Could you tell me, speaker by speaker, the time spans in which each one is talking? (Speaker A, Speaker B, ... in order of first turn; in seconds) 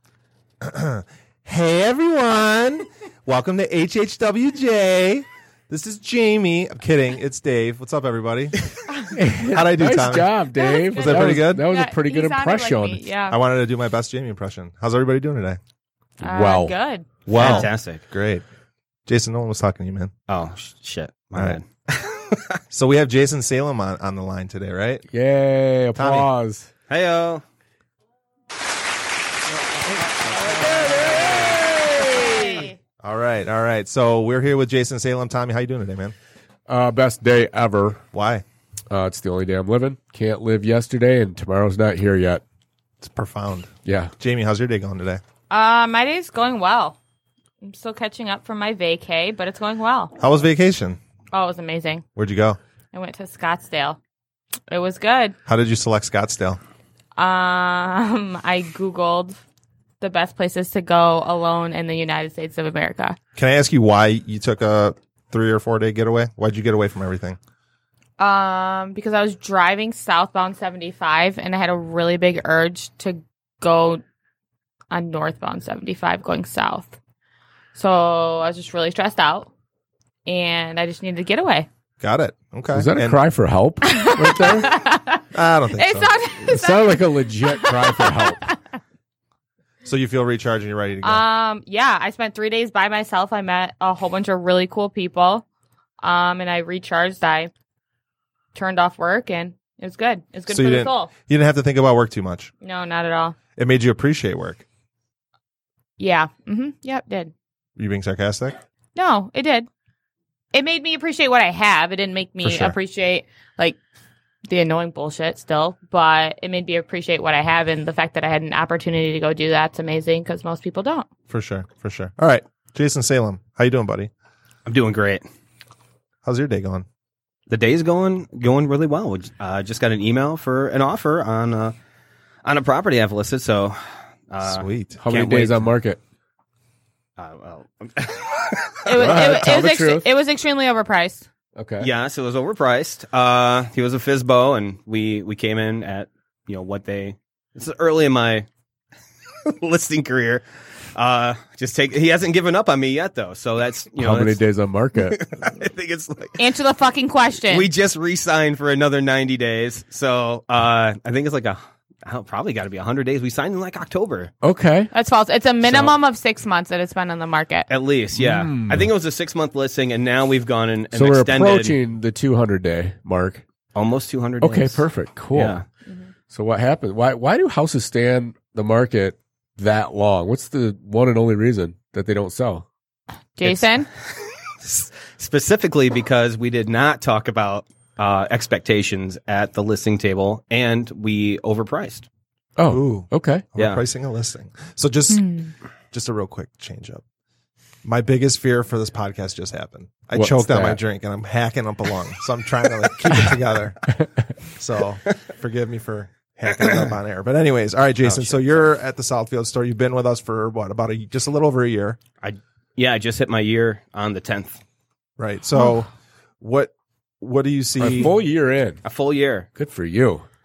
Speaker A: 0.6-8.7, 9.4-11.7, 13.3-15.6, 17.3-18.4, 19.1-20.1, 22.7-25.0, 25.9-26.3, 33.0-36.1, 38.1-38.4, 43.0-45.2, 50.2-51.0, 52.2-52.6, 55.5-56.6, 63.4-67.4, 82.0-83.2, 85.3-86.1, 89.8-91.2, 100.5-102.5, 103.6-104.7, 107.8-108.6, 112.4-112.7, 121.3-124.1, 126.2-126.9, 134.4-135.0, 192.7-195.4, 195.9-197.0, 197.8-203.9, 204.4-212.0, 215.2-218.1
Speaker B: 9.1-13.0, 16.2-16.7, 25.1-26.7, 30.5-32.4, 36.7-38.0, 38.9-42.4, 43.9-44.1, 82.7-84.7, 86.4-88.5, 135.0-136.0, 138.9-140.1, 141.6-141.9, 154.0-155.2, 164.4-164.9, 168.2-168.9, 170.9-173.4, 174.4-175.6, 176.3-182.7, 192.6-193.5, 200.2-200.8, 217.8-218.8, 219.6-220.2
Speaker C: 10.6-13.4, 16.2-17.7, 32.0-32.8, 45.5-47.0, 47.6-50.1, 51.3-52.0, 52.9-54.0, 54.7-55.4, 57.2-59.4, 60.0-63.2, 68.2-74.0, 74.9-77.0, 77.8-79.5, 80.3-81.7, 83.8-88.8, 91.0-95.5, 96.0-97.5, 98.5-101.1, 102.6-103.4, 106.0-107.3, 109.0-109.7, 110.5-113.8, 114.5-121.1, 138.8-141.2, 156.4-157.7, 164.9-167.7, 183.4-183.9, 195.1-195.5
Speaker D: 17.3-18.0, 20.3-22.6, 26.9-27.4, 124.7-125.2, 127.5-131.8, 132.4-135.7, 137.2-138.8, 141.8-148.5, 149.4-154.4, 155.0-156.4, 157.5-164.3, 165.6-165.9, 167.7-171.8, 173.8-175.6, 184.6-192.1, 193.6-193.8, 206.5-206.9, 208.0-208.7, 212.2-214.6, 218.8-219.5